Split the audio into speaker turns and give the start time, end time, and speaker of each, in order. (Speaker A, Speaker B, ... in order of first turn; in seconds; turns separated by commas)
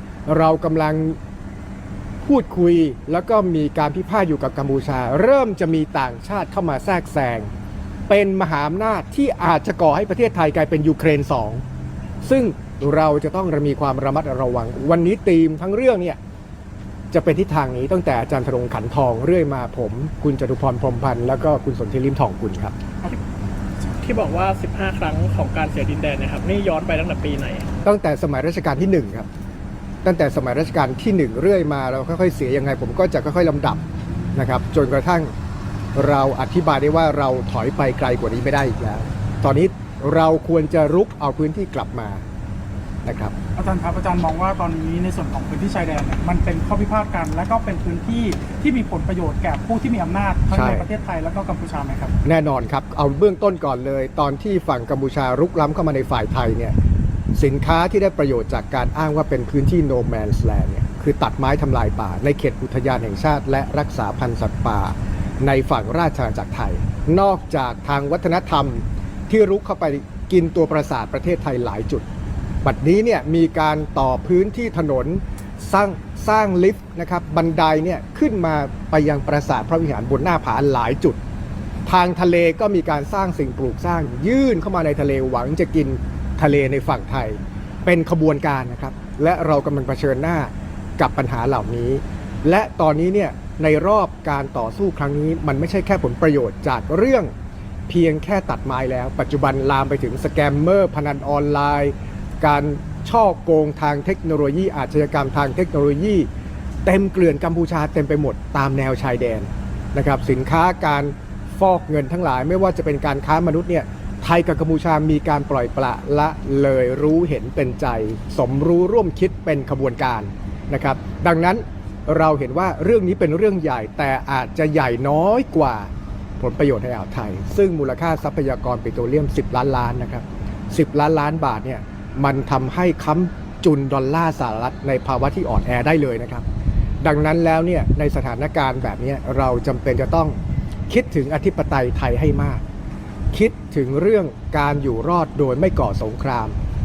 Speaker A: 0.3-1.2, Speaker A: 2.2-7.5, Speaker A: 8.1-11.6, Speaker A: 12.2-16.2, Speaker A: 17.1-22.8, Speaker B: 23.9-27.7, Speaker A: 27.8-29.3, Speaker A: 30.0-33.8, Speaker A: 34.4-35.3, Speaker A: 36.0-42.2, Speaker A: 43.0-43.3, Speaker B: 43.6-44.9, Speaker C: 43.7-51.0, Speaker B: 48.4-48.8, Speaker A: 50.5-50.9, Speaker B: 51.0-51.5, Speaker C: 51.5-52.1, Speaker A: 52.2-56.8, Speaker A: 57.3-72.1, Speaker A: 72.6-81.2, Speaker A: 81.9-97.3, Speaker A: 97.9-106.3, Speaker A: 106.8-136.4, Speaker A: 137.0-140.4, Speaker A: 140.9-142.6, Speaker A: 143.3-146.6